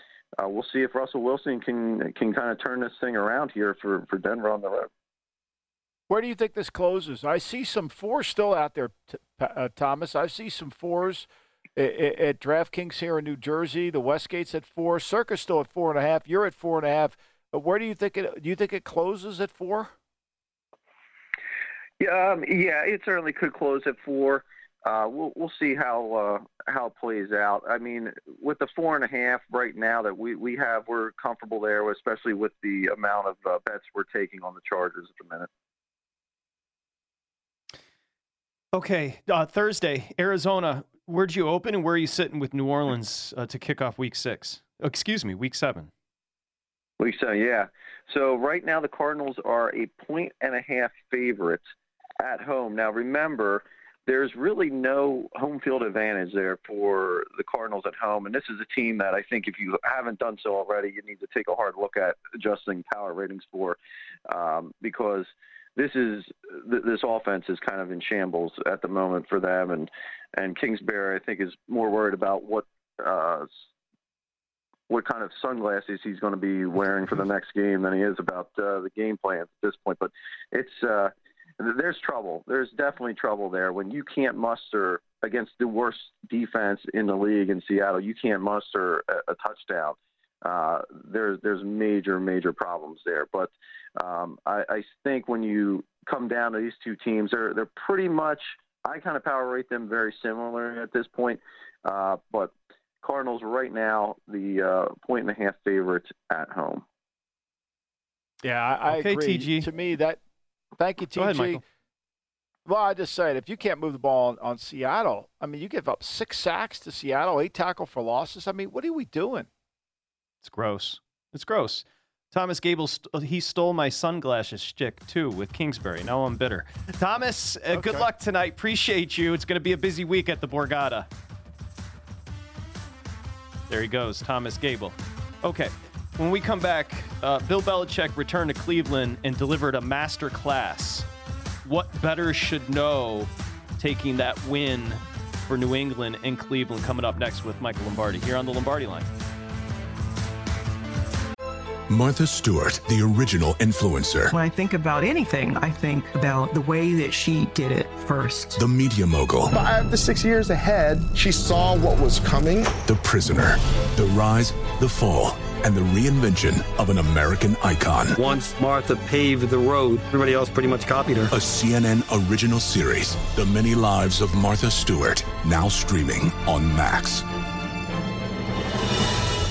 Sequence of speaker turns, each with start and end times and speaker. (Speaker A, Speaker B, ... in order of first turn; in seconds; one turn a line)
Speaker A: 0.4-4.9
Speaker B: 6.1-19.9
Speaker A: 22.0-35.5
Speaker C: 38.7-45.9
Speaker A: 47.0-51.6
Speaker A: 52.2-63.8
Speaker A: 64.3-73.5
Speaker A: 74.9-106.8
Speaker B: 108.4-110.2
Speaker C: 108.9-109.7
Speaker B: 110.8-111.6
Speaker C: 111.2-111.6
Speaker B: 112.7-119.5
Speaker C: 120.4-131.1
Speaker B: 127.7-128.1
Speaker C: 133.7-141.1
Speaker C: 141.6-149.1
Speaker D: 151.9-154.3
Speaker E: 154.3-158.6
Speaker D: 158.5-159.5
Speaker F: 159.5-162.7
Speaker D: 162.8-168.2
Speaker G: 168.2-171.3
Speaker D: 171.3-177.2